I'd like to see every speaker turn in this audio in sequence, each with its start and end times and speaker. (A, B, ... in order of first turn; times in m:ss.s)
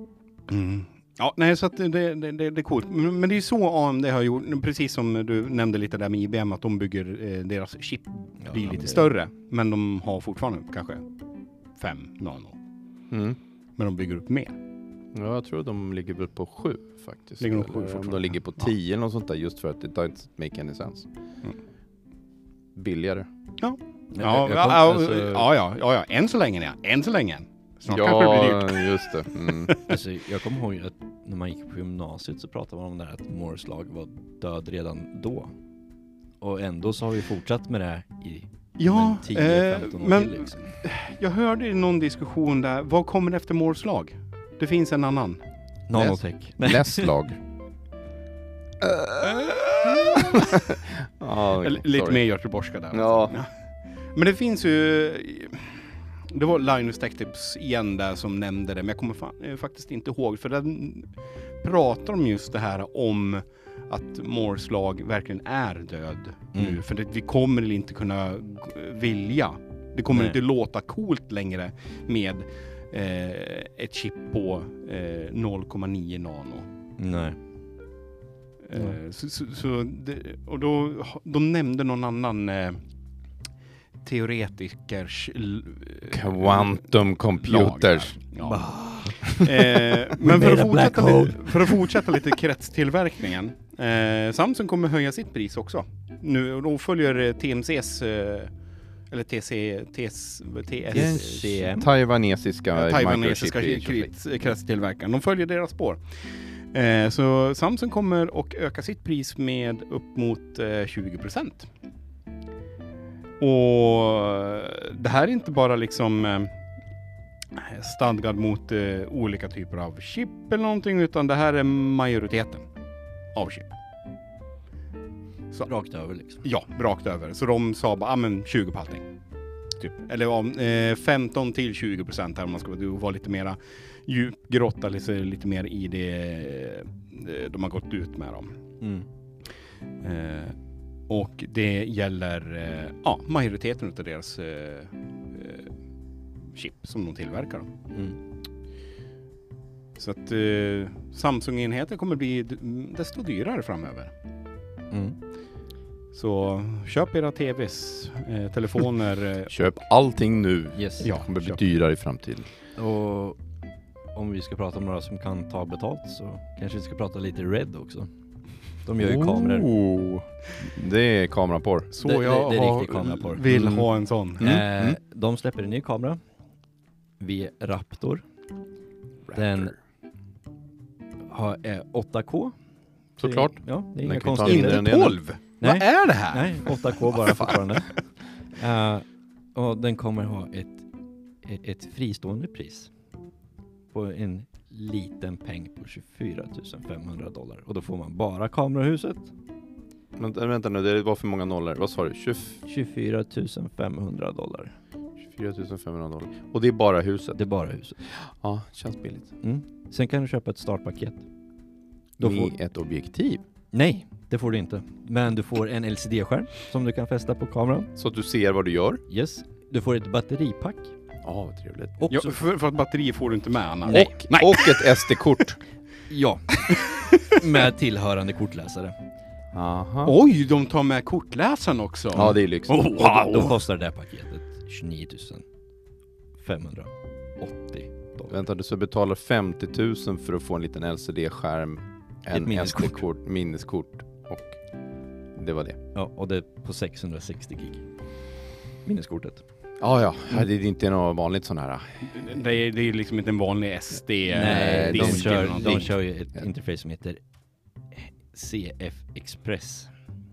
0:00.5-0:11.0 A
0:08.4-0:09.1 B
0:11.8-0:12.6 A
0:13.1-0:13.4 C
0:13.8-0:14.6 A
0:15.1-0:21.1 C
0:17.4-0:18.6 A
0:22.7-0:23.3 C
0:23.6-0:29.9 A
0:24.1-0:25.5 B
0:27.9-0:29.7 C
0:29.9-0:35.5 B
0:36.4-0:40.7 B
0:38.8-0:45.4 A
0:45.9-0:47.1 B
0:45.9-0:47.4 C
0:48.8-0:52.2 C
0:50.0-0:50.5 A
0:51.6-0:53.5 A
0:52.9-0:53.4 C
0:54.1-1:01.1 A
1:01.6-1:16.7 A
1:06.5-1:06.8 B
1:10.1-1:10.4 B
1:17.0-1:17.4 B
1:18.6-1:22.8 A
1:24.0-1:26.8 A
1:26.1-1:28.2 C
1:27.4-1:28.6 A
1:28.4-1:32.0 B
1:29.2-1:38.5 A
1:39.1-1:41.6 A
1:40.9-1:41.9 B
1:40.9-1:44.1 C
1:42.7-1:46.0 A
1:46.7-1:51.7 A
1:53.4-1:56.5 A
1:57.5-2:02.6 A
2:03.3-2:03.7 A
2:05.6-2:06.4 B
2:06.4-2:09.1 A
2:09.8-2:18.6 A
2:18.8-2:19.0 B
2:20.0-2:20.6 A
2:21.1-2:25.7 A
2:26.5-2:27.7 A
2:27.9-2:28.2 B
2:30.0-2:34.1 A
2:34.9-2:35.2 B
2:36.1-2:39.7 A
2:39.5-2:42.5 C
2:40.8-2:41.1 B
2:41.0-2:41.6 A
2:42.8-2:43.4 B
2:44.1-2:48.1 B
2:48.8-2:49.7 B
2:49.0-2:51.9 C
2:51.9-2:54.6 A
2:52.0-2:53.4 B
2:53.5-2:55.0 C
2:54.4-2:56.2 B
2:57.2-2:58.2 B
2:59.3-2:59.7 B
3:01.3-3:02.5 B
3:03.2-3:05.2 C
3:03.2-3:04.9 B
3:04.4-3:06.9 A
3:05.6-3:07.9 B
3:08.5-3:10.8 B
3:11.4-3:12.9 B
3:13.9-3:19.3 B
3:20.2-3:22.6 C
3:22.6-3:24.7 B
3:25.2-3:27.4 C
3:27.4-3:28.0 B
3:28.0-3:29.3 C
3:29.4-3:31.2 B
3:32.2-3:33.4 C
3:32.2-3:32.5 B
3:33.7-3:37.9 B
3:38.0-3:39.0 C
3:39.1-3:40.9 B
3:41.2-3:42.0 C
3:42.0-3:42.4 B
3:42.1-3:45.2 A
3:43.9-3:45.6 C
3:46.1-3:49.0 B
3:46.7-3:47.3 A
3:49.5-3:50.2 C
3:50.0-3:53.6 A
3:52.1-3:52.8 C
3:52.9-3:55.4 B
3:56.4-3:58.4 B
3:58.3-4:04.6 C
4:02.3-4:03.0 B
4:05.3-4:05.8 C
4:05.9-4:07.8 B
4:08.8-4:09.4 B
4:09.8-4:12.1 C
4:12.1-4:15.9 A
4:14.3-4:17.2 B
4:14.4-4:15.9 C
4:17.9-4:19.9 B